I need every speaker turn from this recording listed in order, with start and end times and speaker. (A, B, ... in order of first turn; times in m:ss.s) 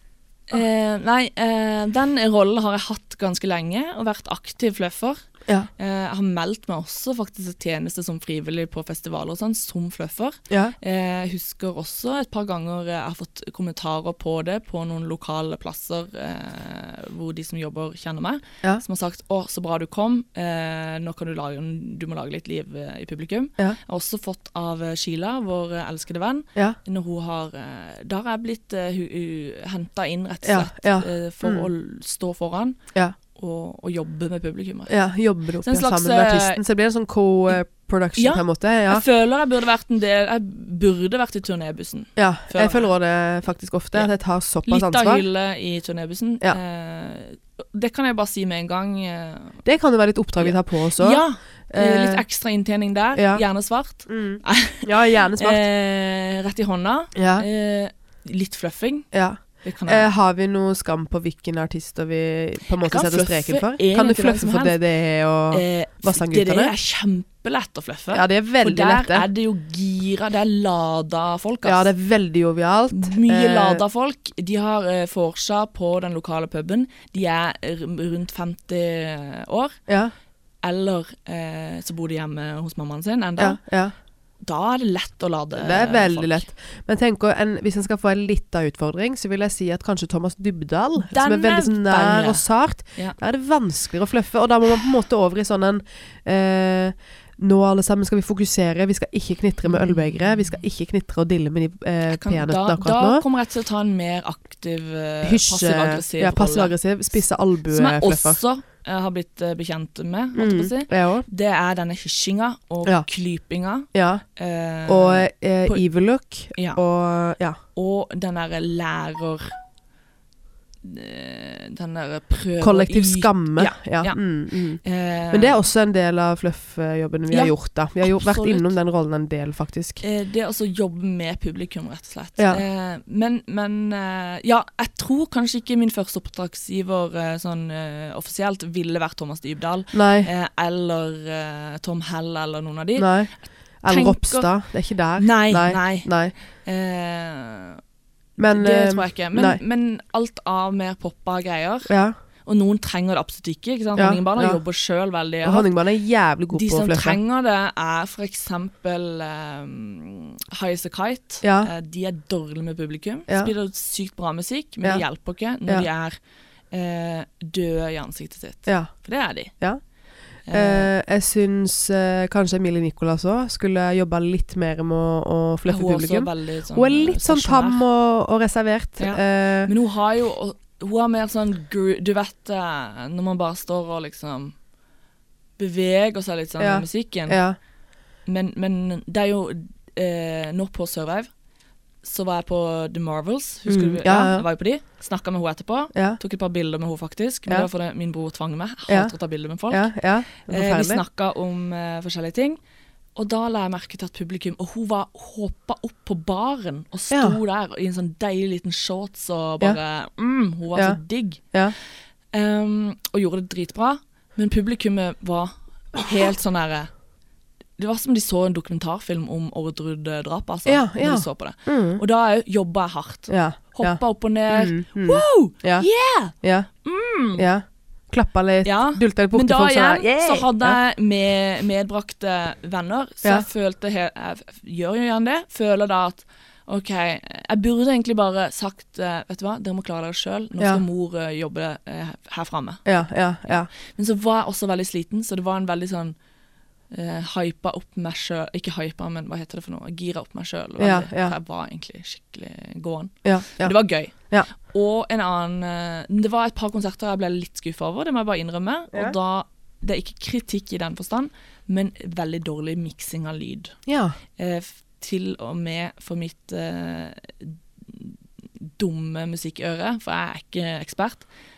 0:00.5-0:05.2 A
0:05.8-0:32.8 A
0:10.5-0:10.8 B
0:30.4-0:31.7 B
0:33.3-0:34.9 A
0:34.9-0:39.0 B
0:35.6-0:36.6 A
0:38.2-0:42.9 A
0:42.2-0:45.2 B
0:44.6-0:49.6 A
0:49.6-0:52.2 B
0:50.4-0:59.1 A
0:53.2-0:53.4 B
0:54.1-0:55.6 B
0:57.1-0:57.4 B
0:59.1-1:06.7 B
0:59.6-1:00.1 A
1:02.8-1:04.8 A
1:05.5-1:11.9 A
1:08.1-1:09.2 B
1:11.6-1:13.8 B
1:12.9-1:19.8 A
1:19.9-1:20.1 B
1:20.6-1:23.6 A
1:23.4-1:23.9 B
1:24.4-1:26.5 A
1:25.5-1:43.2 B
1:31.0-1:32.4 A
1:39.6-1:40.5 A
1:42.1-1:46.7 A
1:45.2-1:48.4 B
1:47.7-1:55.8 A
1:50.4-1:51.2 B
1:53.9-1:54.2 B
1:54.8-1:57.6 B
1:56.5-1:56.8 A
1:57.7-1:59.6 A
2:00.8-2:04.2 A
2:02.6-2:10.0 B
2:04.8-2:05.6 A
2:07.3-2:08.7 A
2:10.0-2:24.5 A
2:12.4-2:12.6 B
2:19.9-2:20.3 B
2:23.0-2:26.3 B
2:25.2-2:27.8 A
2:28.4-2:29.6 B
2:28.5-2:31.9 A
2:31.9-2:32.1 B
2:32.4-2:35.7 A
2:34.0-2:34.6 B
2:35.4-2:37.2 B
2:36.5-2:46.2 A
2:41.4-2:41.7 B
2:46.7-2:49.5 A
2:48.7-2:48.9 B
2:50.5-2:50.9 A
2:50.5-2:59.7 B
2:55.7-2:57.8 A
2:59.0-3:04.5 A
3:05.6-3:07.4 A
3:06.6-3:07.6 B
3:08.2-3:11.3 A
3:12.0-3:19.9 A
3:13.7-3:14.4 B
3:15.9-3:16.2 B
3:18.9-3:19.1 B
3:19.7-3:21.0 B
3:20.5-3:22.6 A
3:23.2-3:31.5 A
3:27.1-3:27.4 B
3:32.3-3:36.9 A
3:37.8-3:47.5 A
3:40.6-3:42.0 B
3:43.3-3:46.7 B
3:47.3-3:50.8 B
3:48.6-4:02.8 A
4:02.8-4:03.7 B
4:03.7-4:06.2 A
4:06.9-4:23.8 A
4:10.8-4:11.3 B
4:13.2-4:14.5 B
4:23.8-4:24.2 B
4:24.4-4:31.3 A